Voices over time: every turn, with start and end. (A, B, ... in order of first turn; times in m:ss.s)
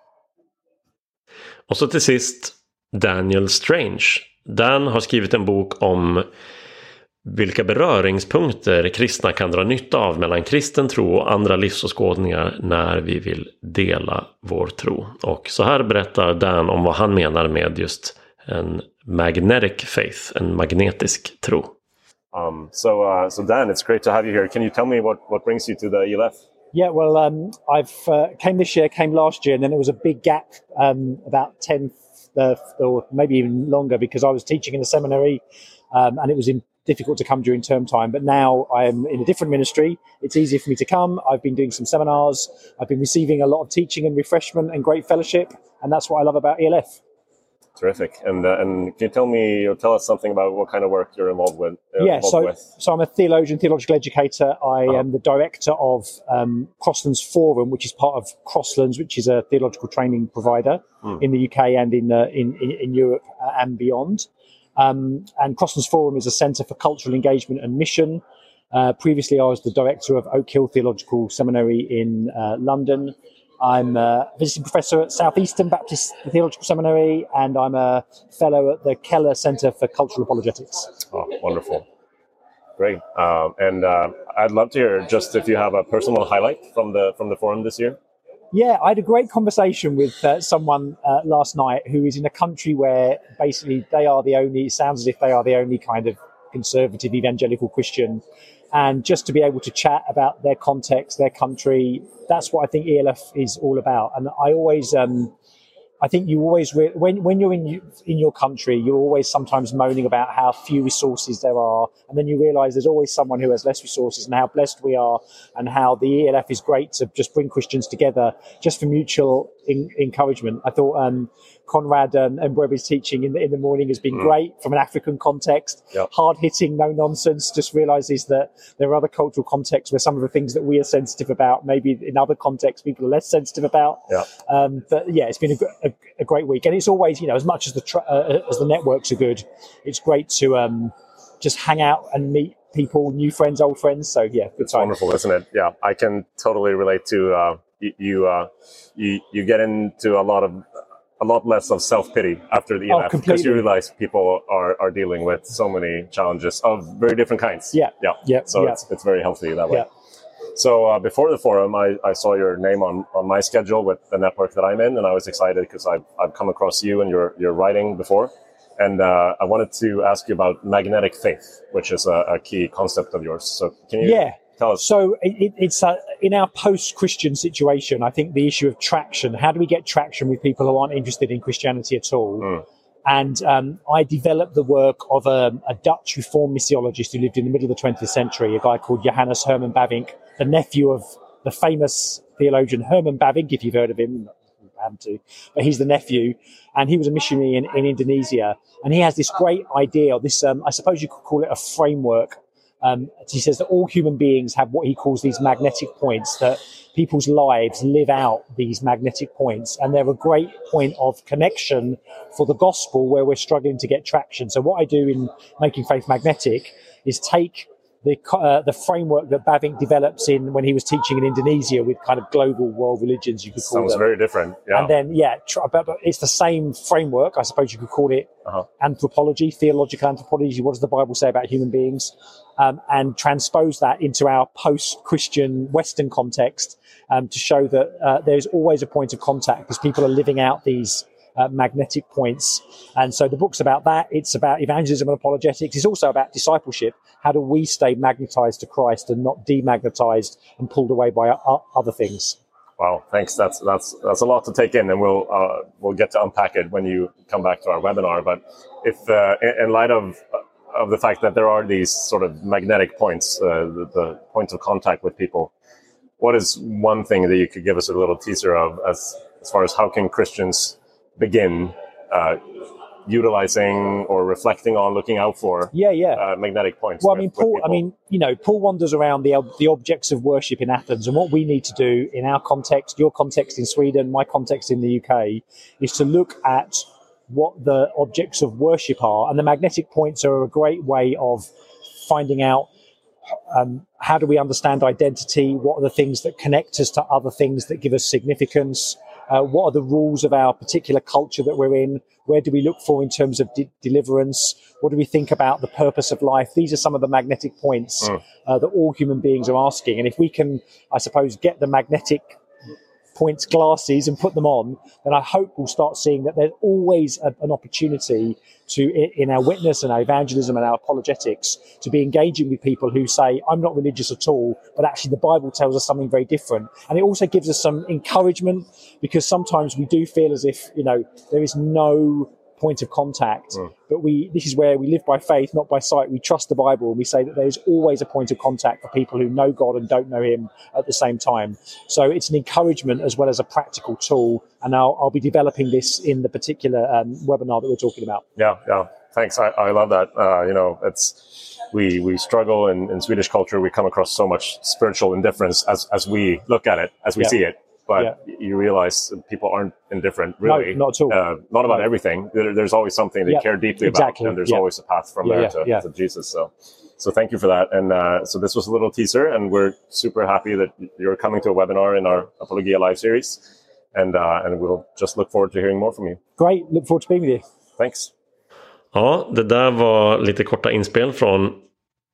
0:01.7-0:06.2 A
0:07.2-0:21.7 A
0:22.3-0:26.4 B
0:26.7-0:47.0 C
0:47.8-0:52.6 B
0:52.0-1:21.0 C
1:21.1-1:21.8 B
1:22.8-1:28.0 B
1:28.5-1:45.3 C
1:46.0-2:24.9 C
2:24.7-2:30.7 B
2:31.2-2:39.9 B
2:32.9-2:33.6 C
2:37.7-2:38.8 C
2:40.5-2:54.8 B
2:54.0-3:44.1 C
3:43.6-3:44.9 B
3:44.7-4:12.4 C
4:12.8-4:25.5 B
4:26.2-4:37.8 B
4:35.7-4:36.2 C
4:37.0-4:52.7 C
4:53.5-5:12.4 C
5:13.1-5:48.2 C
5:48.4-6:13.4 B
6:00.4-6:01.9 C
6:03.3-6:04.6 C
6:05.2-6:05.8 C
6:13.9-6:16.2 B
6:16.4-6:17.4 C
6:17.8-6:18.1 B
6:18.9-6:21.6 A